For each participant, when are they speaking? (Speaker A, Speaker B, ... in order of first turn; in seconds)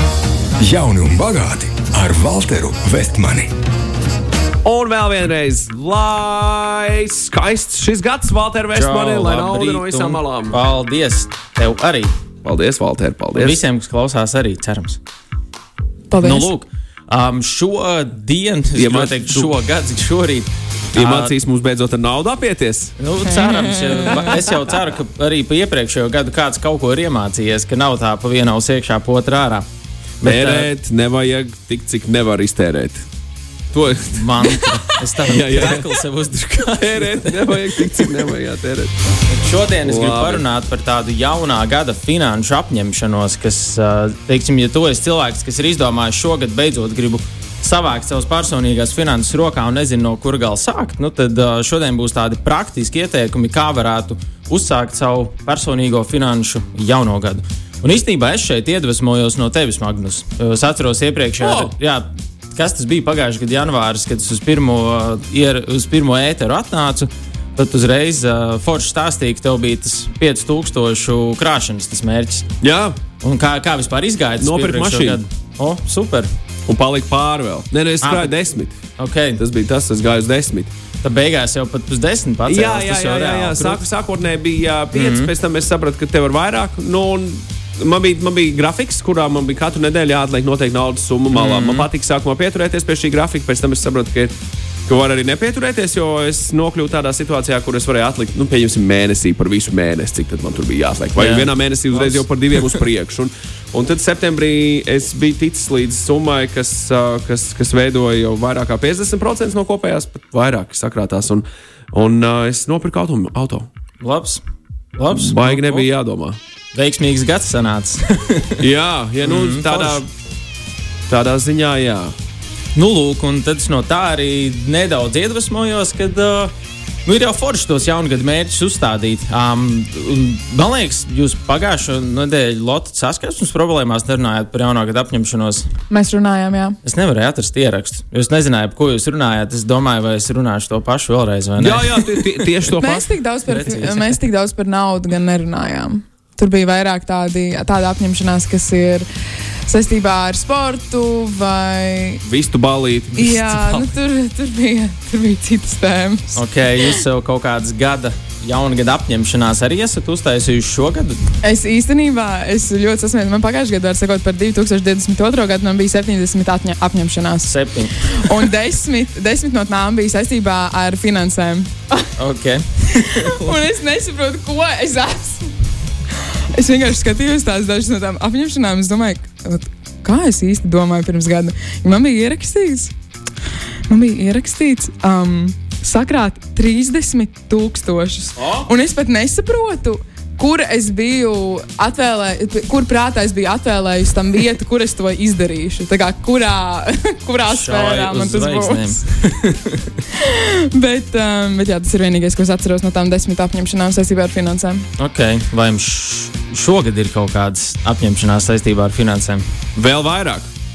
Speaker A: 0.6-3.5
Speaker B: 4.6-10.6, 12.4-13.6, 18.8-19.5, 20.9-22.9, 30.2-33.0, 33.7-35.9, 36.8-38.9, 39.8-40.4, 61.4-61.7, 72.6-73.0, 74.4-75.2, 76.7-78.8, 79.4-80.7, 82.5-94.3, 94.9-113.7, 115.1-116.4, 118.6-120.1, 121.1-122.1, 141.6-143.1, 152.2-153.9, 209.8-210.5
Speaker C: 8.7-12.1, 13.3-15.0, 16.2-21.3, 23.0-29.6, 30.2-30.7, 34.1-38.3, 39.3-72.5, 73.2-76.3, 78.0-78.3, 79.0-79.4, 81.0-83.8, 84.9-85.3, 91.3-91.9, 101.2-102.8, 114.0-114.4, 115.0-115.9, 116.7-118.6, 119.2-120.0, 122.7-126.5, 127.0-135.7, 136.8-142.7, 143.5-144.2, 156.3-161.2, 167.4-168.4, 172.2-173.4, 188.4-188.7, 197.5-200.0, 205.0-209.4
Speaker D: 16.1-16.5, 23.5-23.9, 135.9-136.8, 142.8-149.1, 149.7-152.2, 153.2-156.9, 161.4-167.5, 168.1-172.1, 173.0-175.5, 176.1-182.9, 183.9-198.9, 200.1-204.8